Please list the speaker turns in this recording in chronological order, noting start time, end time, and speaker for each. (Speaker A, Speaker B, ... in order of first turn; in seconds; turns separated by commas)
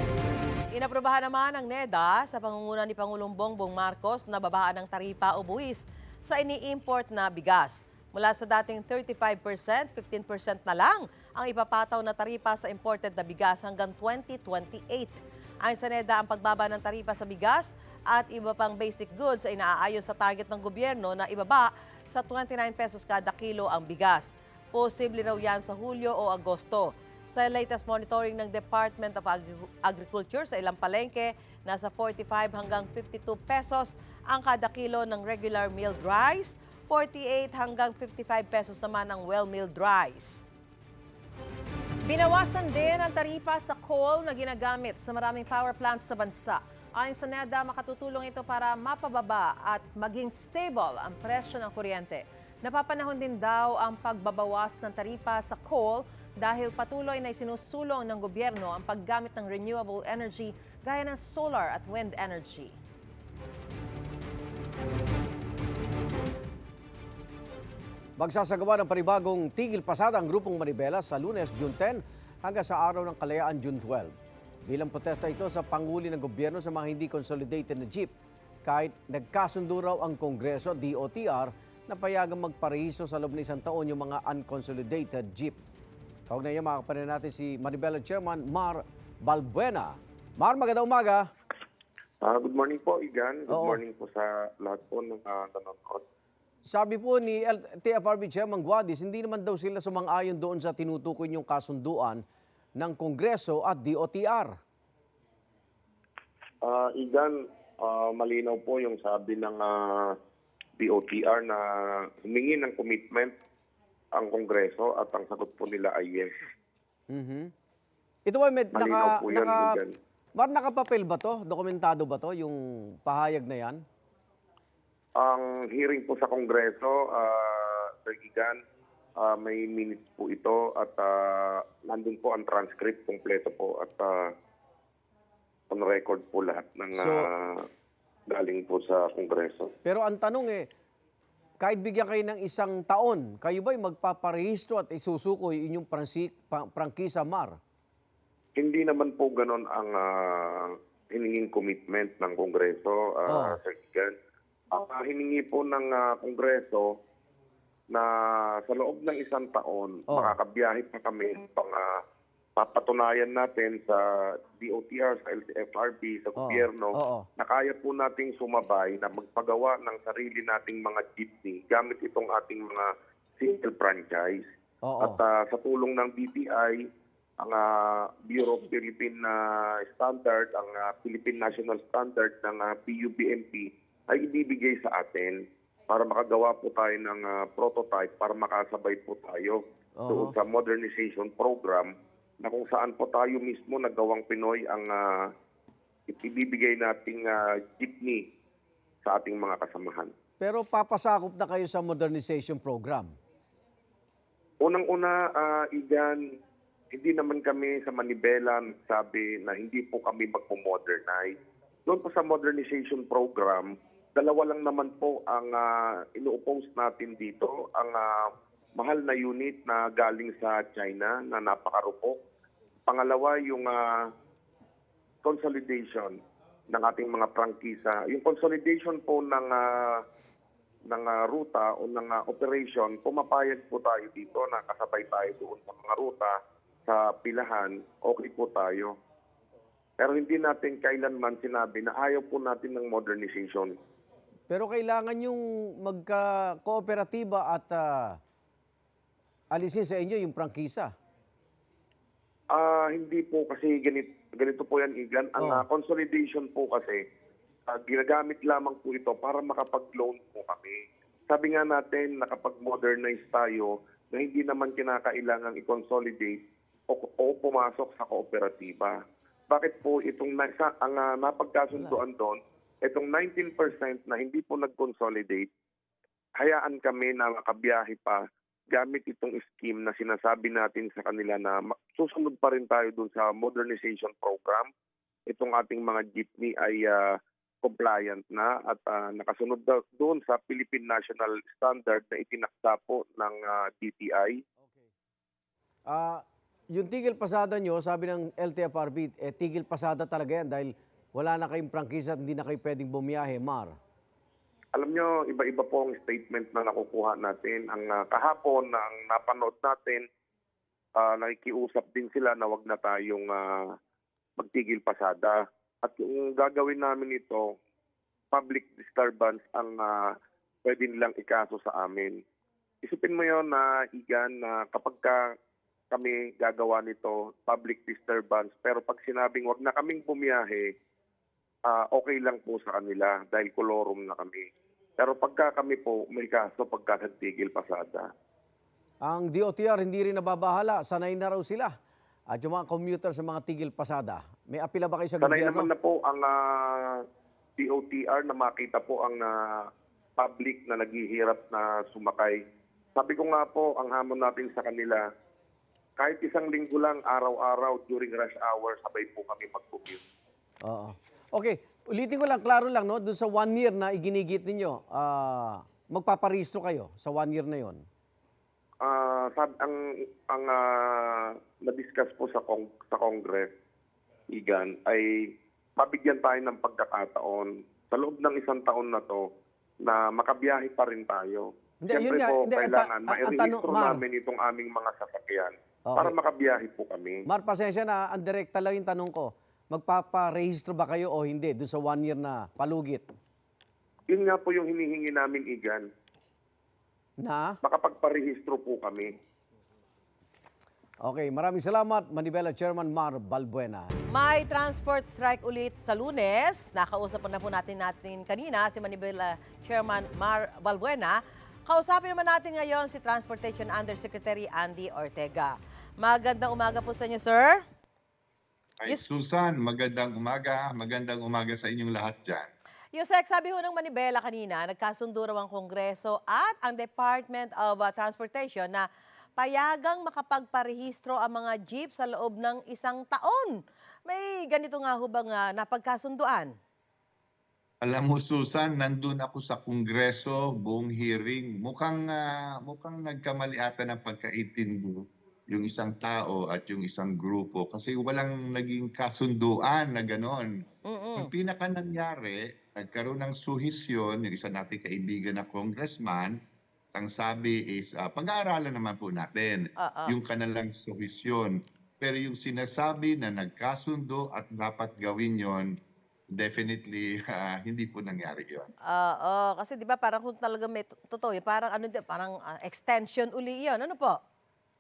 Speaker A: 0.7-40.4, Speaker B: 42.0-62.8, Speaker C: 68.2-74.2, Speaker C: 74.7-78.1, Speaker C: 78.7-85.6, Speaker C: 86.3-91.3, Speaker D: 92.2-96.0, Speaker C: 93.5-93.8, Speaker C: 96.7-102.2, Speaker C: 102.8-104.6, Speaker D: 106.6-110.2, Speaker D: 110.8-113.3, Speaker D: 114.2-116.3, Speaker C: 117.1-117.5, Speaker C: 118.3-119.8, Speaker D: 118.8-119.9, Speaker C: 120.4-123.8, Speaker D: 125.2-128.6, Speaker D: 129.2-134.3, Speaker D: 135.7-137.7, Speaker C: 137.0-137.3, Speaker D: 138.3-139.7, Speaker C: 139.8-140.7, Speaker C: 141.6-147.6, Speaker D: 148.6-154.2, Speaker C: 153.3-153.6, Speaker D: 154.7-156.9, Speaker D: 158.7-162.0, Speaker C: 160.1-160.3, Speaker D: 162.6-164.0, Speaker D: 164.6-174.4, Speaker C: 166.4-167.3, Speaker C: 174.8-175.2, Speaker D: 175.0-176.8, Speaker D: 177.4-195.3, Speaker C: 190.0-190.3, Speaker D: 196.1-198.2, Speaker D: 199.0-200.1, Speaker C: 200.4-203.2, Speaker D: 204.6-206.2, Speaker D: 206.9-211.3, Speaker D: 211.9-222.2, Speaker D: 222.9-223.9, Speaker D: 225.2-226.2, Speaker D: 226.7-230.0, Speaker D: 230.9-238.9, Speaker D: 240.0-243.8, Speaker C: 244.5-248.2, Speaker C: 249.5-250.9, Speaker D: 252.5-257.0, Speaker D: 257.7-275.5, Speaker D: 276.4-284.7, Speaker D: 285.3-294.4, Speaker C: 295.9-303.8, Speaker D: 304.8-310.1, Speaker D: 311.0-313.7, Speaker D: 314.4-317.6, Speaker D: 318.3-320.1, Speaker D: 320.6-322.2, Speaker D: 322.8-325.3, Speaker D: 325.9-330.7, Speaker D: 331.7-334.5, Speaker D: 335.0-338.1, Speaker C: 339.0-341.8, Speaker C: 342.3-345.7, Speaker D: 345.2-347.0, Speaker D: 347.6-349.7, Speaker D: 350.2-352.4, Speaker D: 353.0-355.0, Speaker D: 356.0-360.0, Speaker C: 360.6-367.8, Speaker D: 368.8-373.5, Speaker D: 374.3-375.1, Speaker D: 375.8-379.2, Speaker D: 379.8-387.2, Speaker C: 381.8-384.0, Speaker C: 385.9-386.1, Speaker C: 387.3-393.1, Speaker D: 394.1-395.9, Speaker C: 397.2-397.6, Speaker D: 397.6-399.1, Speaker C: 401.0-403.9, Speaker A: 404.1-417.6, Speaker E: 418.8-422.5, Speaker A: 422.9-428.9, Speaker A: 429.4-433.6, Speaker A: 434.1-436.5, Speaker E: 437.8-450.5, Speaker A: 450.9-451.3, Speaker E: 451.2-456.4, Speaker E: 456.9-465.7, Speaker A: 459.8-460.1, Speaker E: 466.3-468.7, Speaker A: 468.9-474.2